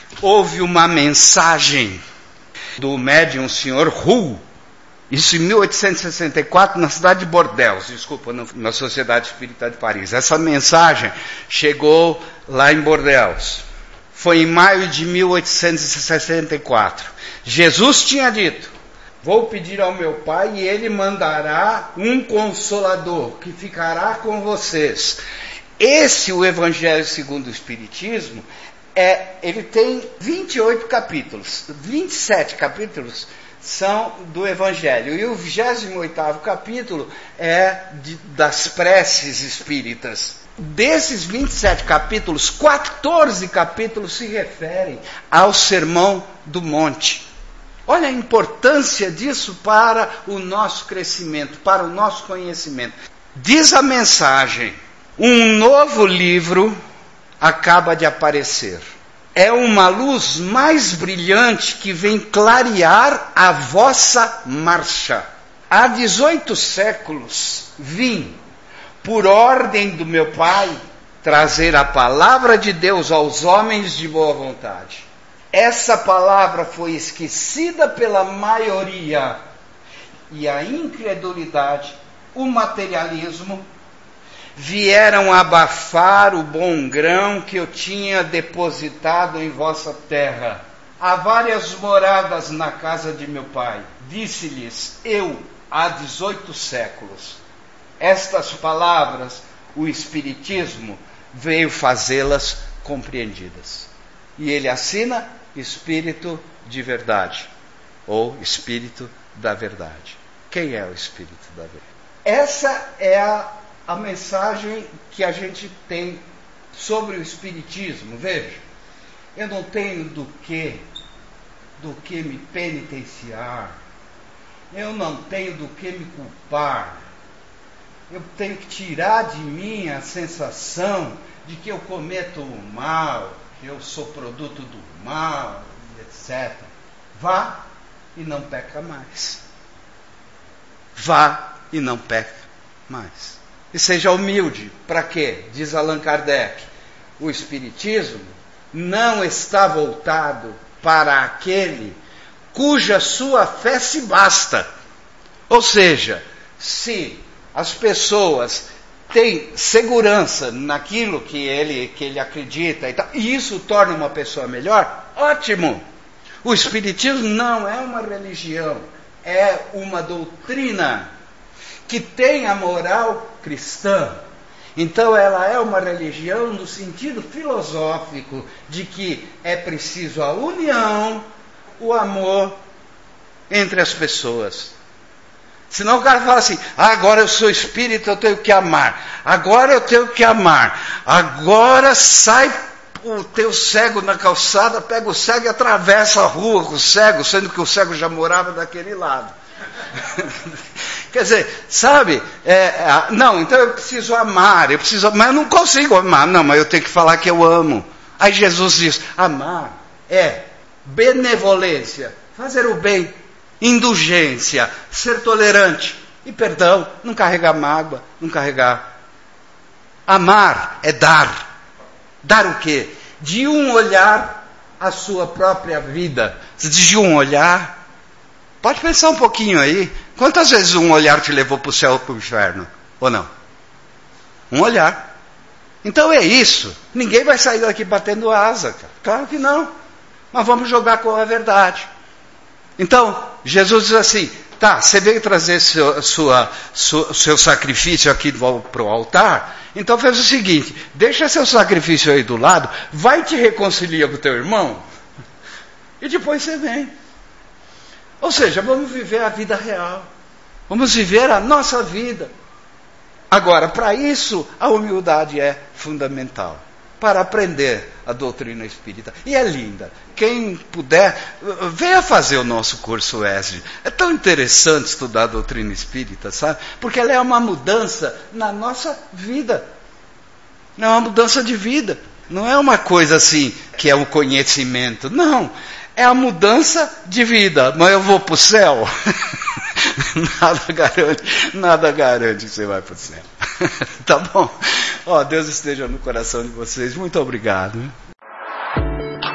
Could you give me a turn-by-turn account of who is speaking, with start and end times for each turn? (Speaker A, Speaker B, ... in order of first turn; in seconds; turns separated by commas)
Speaker A: 0.2-2.0, Speaker A: 2.8-4.4, Speaker A: 5.1-25.2, Speaker A: 25.8-47.3, Speaker A: 47.9-56.8, Speaker A: 57.4-58.8, Speaker A: 59.4-68.4, Speaker A: 69.0-79.4, Speaker A: 80.3-83.7, Speaker A: 84.6-97.4, Speaker A: 98.0-107.5, Speaker A: 108.1-118.6, Speaker A: 119.3-120.9, Speaker A: 121.8-123.8, Speaker A: 124.7-127.0, Speaker A: 128.1-137.6, Speaker A: 138.2-139.4, Speaker A: 141.0-146.7, Speaker A: 147.2-152.0, Speaker A: 152.5-154.7, Speaker A: 155.5-165.8, Speaker A: 166.4-171.1, Speaker A: 171.9-174.2, Speaker A: 174.8-181.2, Speaker A: 181.8-182.6, Speaker A: 183.5-184.7, Speaker A: 185.7-199.3, Speaker A: 200.0-200.6, Speaker A: 201.1-218.8, Speaker A: 220.1-221.5, Speaker A: 222.2-227.8, Speaker A: 228.6-233.3, Speaker A: 234.5-235.0, Speaker A: 235.8-239.7, Speaker A: 240.3-241.9, Speaker A: 242.8-254.8, Speaker A: 256.0-256.9, Speaker A: 258.2-260.1, Speaker A: 260.7-262.3, Speaker A: 263.3-279.7, Speaker A: 280.8-288.9, Speaker A: 289.8-297.9